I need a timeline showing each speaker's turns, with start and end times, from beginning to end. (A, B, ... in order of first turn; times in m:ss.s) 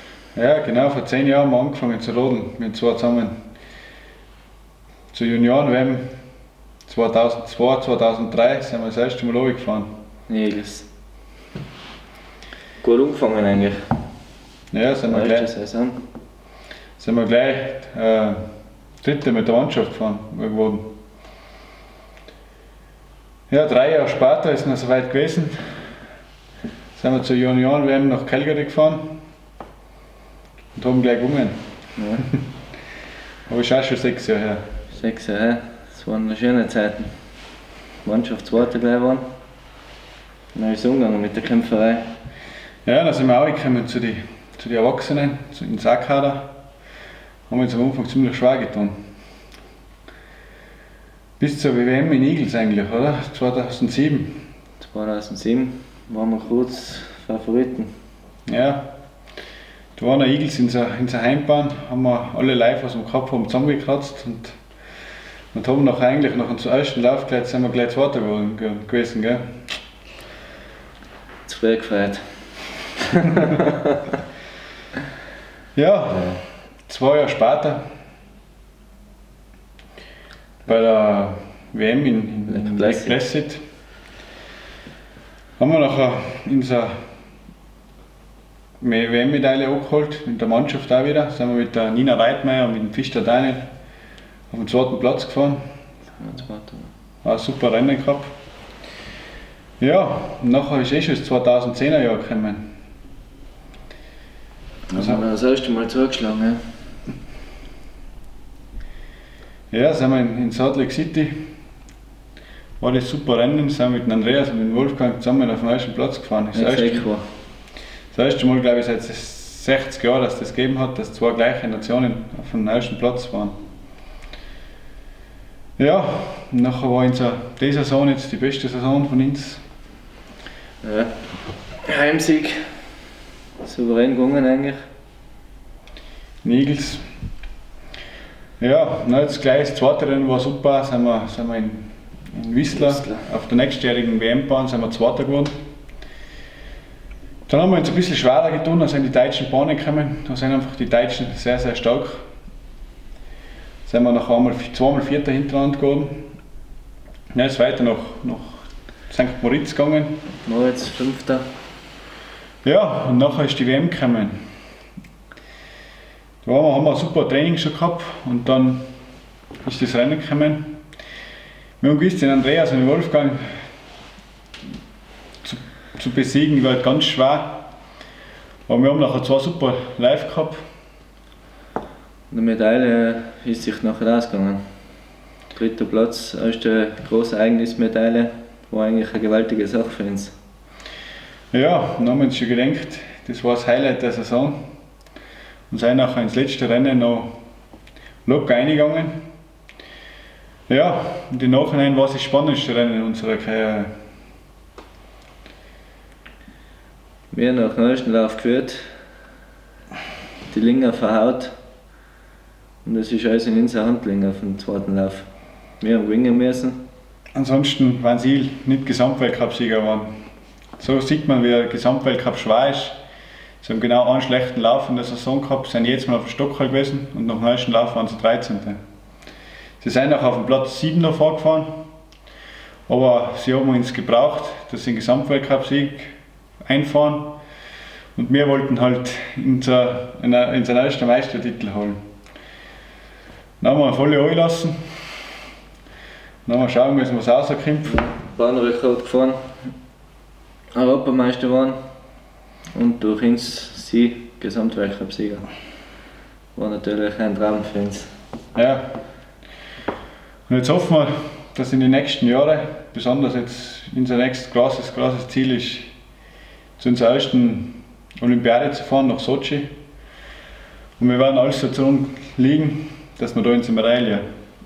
0:00.4-0:03.4 A
0:05.1-0:06.1 A
0:06.9-0:09.9 A
0:10.3-0:10.9 B
0:12.8-0:13.8 B
0:14.7-0:15.5 A
0:15.1-0:16.0 B
0:17.0-0:18.4 A
0:19.0-0:20.9 A
0:23.5-0:25.8 A
0:27.0-0:29.2 A
0:30.7-0:31.6 A
0:32.0-0:32.3 B
0:33.5-0:34.7 A
0:34.9-0:37.1 B
0:38.0-0:39.2 B
0:40.5-0:42.1 B
0:42.9-0:46.5 A
0:47.5-0:49.0 A
0:51.4-0:54.4 A
0:54.8-0:57.9 B
0:58.5-0:58.9 A
1:00.0-1:04.6 A
1:05.5-1:09.6 A
1:11.4-1:12.4 B
1:13.0-1:14.0 B
1:15.8-1:17.8 A
1:20.6-1:23.6 A
1:22.5-1:23.2 B
1:25.6-1:27.0 A
1:28.8-1:33.7 A
1:34.5-1:35.6 A
1:36.2-1:36.9 B
1:37.2-1:38.3 A
1:39.8-1:42.7 A
1:44.9-1:46.6 B
1:45.0-1:45.2 A
1:49.7-1:51.4 A
1:52.8-1:57.0 A
1:56.5-1:57.2 B
1:58.1-2:03.6 A
2:05.8-2:09.6 A
2:10.8-2:11.2 B
2:11.8-2:12.7 B
2:13.6-2:14.8 B
2:16.4-2:17.1 A
2:18.6-2:25.6 A
2:22.9-2:23.2 B
2:27.5-2:32.2 A
2:33.9-2:36.3 A
2:37.3-2:40.2 A
2:40.4-2:41.4 B
2:42.6-2:44.4 A
2:46.4-2:48.8 A
2:49.6-2:50.8 A
2:51.8-2:53.6 A
2:55.4-2:57.7 A
2:58.7-3:00.6 A
3:02.3-3:04.6 B
3:05.5-3:10.3 B
3:11.5-3:14.6 A
3:15.7-3:17.3 A
3:18.2-3:19.1 A
3:20.7-3:23.9 A
3:27.3-3:28.9 B
3:30.5-3:31.5 B
3:32.8-3:35.3 B
3:35.8-3:36.8 B
3:37.4-3:40.1 A
3:40.8-3:43.0 A
3:43.6-3:48.8 A
3:49.8-3:51.8 A
3:52.9-3:56.1 A
3:56.6-3:57.4 A
3:58.1-4:02.0 A
4:03.6-4:04.9 A
4:06.4-4:08.0 A
4:07.8-4:09.5 B
4:10.8-4:11.8 B
4:12.8-4:15.4 B
4:16.6-4:18.1 B
4:18.6-4:18.8 A
4:20.5-4:25.9 A
4:26.8-4:29.7 A
4:31.0-4:34.2 A